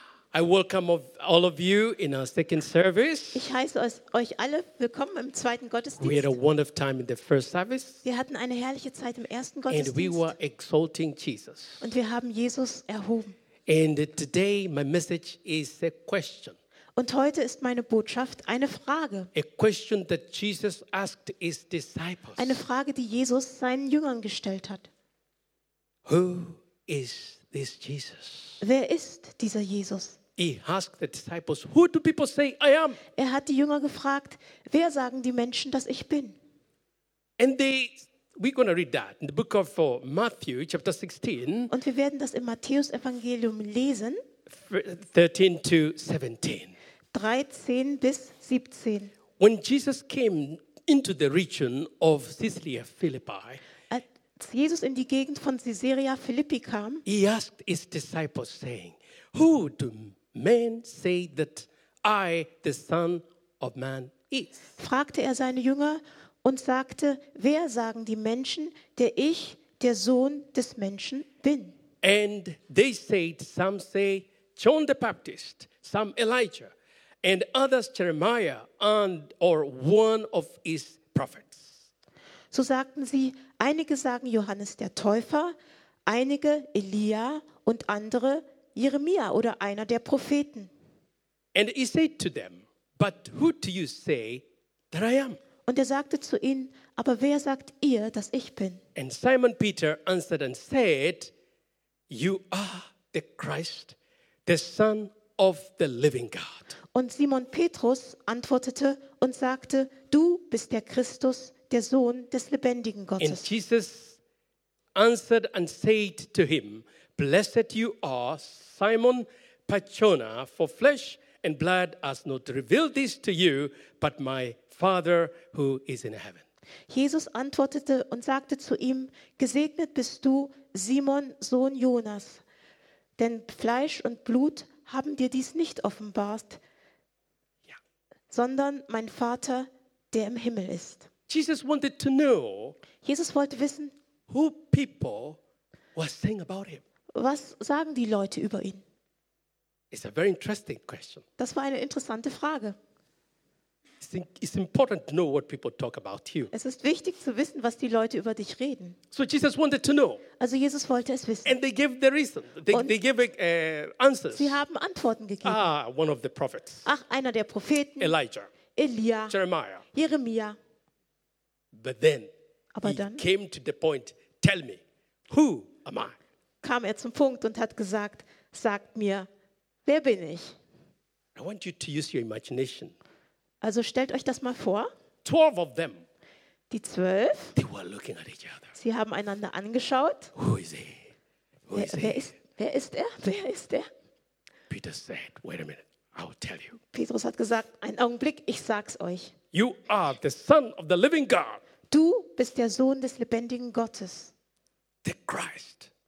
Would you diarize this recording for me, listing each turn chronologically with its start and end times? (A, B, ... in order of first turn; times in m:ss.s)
0:00.3-0:03.5 A
0:03.3-0:06.3 B
0:06.0-0:08.0 A
0:08.0-0:10.3 B
0:09.7-0:11.9 A
0:11.8-0:13.4 B
0:13.7-0:16.6 A
0:17.0-0:19.3 B
0:19.3-0:22.6 A
0:22.4-0:24.9 B
0:26.0-0:28.6 A
0:28.6-0:30.2 B
0:30.4-0:33.0 A
0:33.1-0:36.4 B
0:37.4-0:41.7 A
0:41.7-0:44.2 B
0:44.5-0:46.7 A
0:47.1-0:49.1 B
0:49.4-0:53.6 A
0:53.9-0:57.0 B
0:57.0-1:04.7 A
1:04.8-1:11.7 B
1:12.0-1:21.9 A
1:22.5-1:25.5 B
1:26.0-1:30.7 B
1:31.5-1:35.4 A
1:35.6-1:38.8 B
1:39.0-1:41.3 A
1:42.1-1:46.7 A
1:46.9-1:53.5 B
1:53.2-1:54.2 A
1:54.9-2:06.4 A
2:06.9-2:12.4 B
2:13.2-2:16.6 B
2:18.3-2:21.1 B
2:21.3-2:22.8 A
2:23.0-2:23.9 B
2:24.3-2:25.4 A
2:25.9-2:26.8 A
2:27.1-2:28.8 B
2:29.9-2:31.2 A
2:31.4-2:32.8 B
2:34.0-2:36.5 A
2:36.5-2:39.0 B
2:39.1-2:40.2 A
2:40.4-2:41.5 B
2:41.4-2:44.6 A
2:42.7-2:42.9 B
2:44.3-2:45.6 B
2:45.4-2:46.8 A
2:46.8-2:48.1 B
2:48.0-2:48.5 A
2:48.7-2:49.3 B
2:49.3-2:49.8 A
2:49.9-2:50.6 B
2:51.7-2:52.3 A
2:52.7-2:53.2 B
2:52.8-2:56.2 A
2:56.6-2:59.3 B
2:59.8-3:00.6 B
3:01.4-3:03.0 A
3:03.6-3:04.9 B
3:05.2-3:06.0 A
3:06.7-3:07.5 B
3:07.6-3:08.7 A
3:08.7-3:10.3 B
3:10.3-3:11.1 A
3:11.7-3:12.3 A
3:11.7-3:13.9 B
3:14.7-3:16.8 A
3:16.9-3:19.3 B
3:19.5-3:21.6 A
3:21.9-3:24.3 B
3:25.0-3:25.9 A